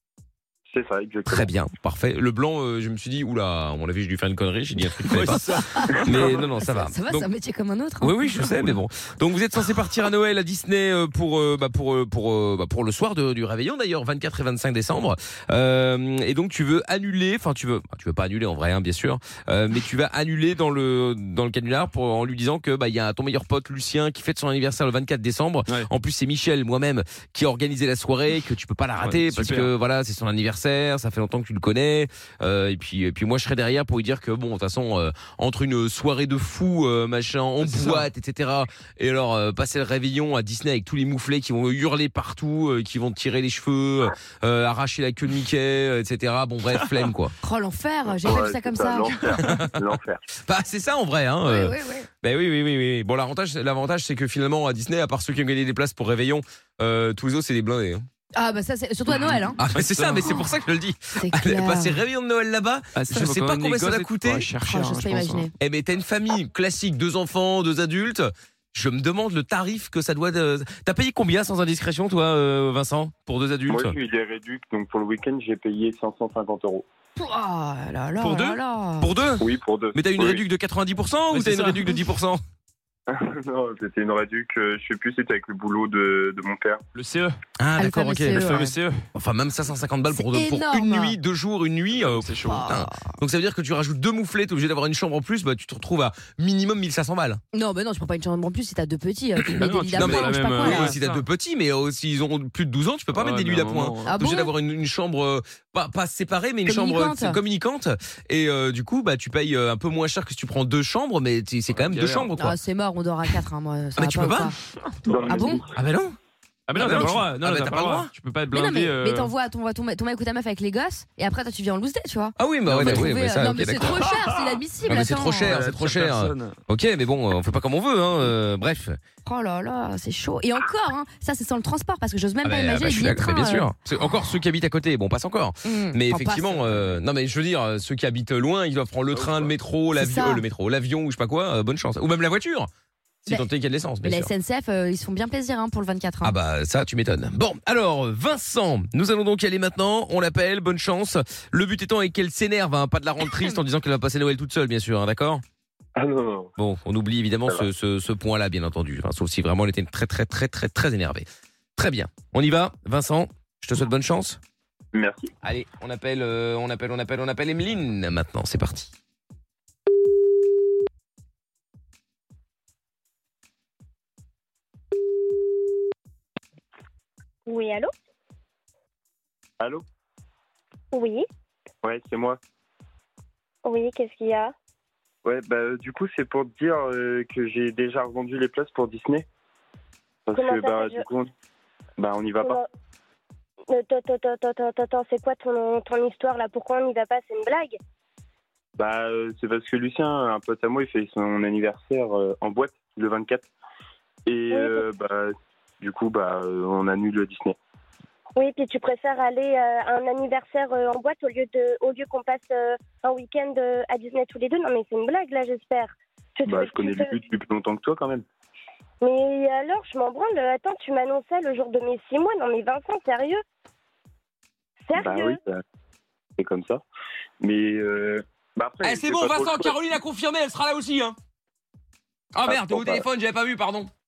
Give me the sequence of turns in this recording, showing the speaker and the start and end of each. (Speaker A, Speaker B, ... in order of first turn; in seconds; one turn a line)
Speaker A: 0.7-1.5
Speaker B: 1.3-7.3
Speaker C: 5.0-6.5
Speaker D: 5.7-6.0
Speaker D: 6.6-8.3
Speaker B: 8.0-47.3
Speaker C: 29.0-29.7
Speaker C: 37.6-38.0
Speaker D: 47.4-49.4
Speaker A: 48.1-50.2
Speaker B: 49.4-49.7
Speaker B: 50.5-58.0
Speaker D: 51.5-52.1
Speaker D: 58.4-59.6
Speaker C: 59.3-60.4
Speaker B: 59.6-64.5
Speaker D: 61.2-62.0
Speaker C: 63.0-65.5
Speaker D: 64.6-65.5
Speaker B: 65.6-73.9
Speaker A: 73.7-76.8
Speaker D: 77.2-79.1
Speaker B: 78.2-82.4
Speaker A: 79.4-80.4
Speaker C: 81.3-82.0
Speaker A: 83.1-86.8
Speaker C: 86.9-87.4
Speaker B: 87.6-97.4
Speaker D: 87.8-88.8
Speaker C: 88.4-89.0
Speaker D: 90.1-91.2
Speaker C: 91.9-92.7
Speaker D: 92.4-93.1
Speaker D: 97.5-101.0
Speaker B: 99.6-112.6
Speaker C: 99.7-101.2
Speaker C: 103.1-104.2
Speaker D: 104.0-104.5
Speaker D: 106.7-107.4
Speaker C: 111.7-112.3
Speaker D: 112.3-115.7
Speaker B: 114.0-114.5
Speaker A: 115.1-115.7
Speaker B: 115.8-116.2
Speaker C: 116.7-119.3
Speaker B: 116.8-118.1
Speaker D: 118.5-125.6
Speaker B: 122.4-124.0
Speaker C: 122.7-123.1
Speaker C: 124.0-124.6
Speaker B: 124.8-129.0
Speaker C: 125.4-126.6
Speaker D: 129.2-133.7
Speaker B: 132.4-142.7
Speaker D: 135.7-137.0
Speaker A: 139.1-139.5
Speaker D: 139.9-140.4
Speaker B: 143.2-144.3
Speaker D: 144.0-146.3
Speaker B: 146.2-155.4
Speaker A: 156.0-156.5
Speaker B: 156.6-164.4
Speaker A: 164.9-165.3
Speaker B: 165.4-168.9
Speaker E: 177.5-177.9
Speaker E: 180.9-181.2
Speaker A: 181.8-182.4
Speaker E: 183.7-184.5
Speaker A: 185.2-189.2
Speaker A: 190.2-191.3
Speaker E: 190.3-191.0
Speaker A: 192.0-192.6
Speaker E: 192.4-192.7
Speaker E: 193.7-197.8
Speaker A: 198.8-203.5
Speaker A: 204.2-207.6
Speaker E: 204.5-204.8
Speaker E: 208.4-217.1
Speaker A: 216.4-218.2
Speaker E: 219.0-223.4
Speaker E: 224.9-225.4
Speaker A: 224.9-225.6
Speaker A: 226.4-226.8
Speaker A: 227.4-229.8
Speaker B: 228.8-231.2
Speaker B: 232.3-233.9
Speaker A: 232.5-233.0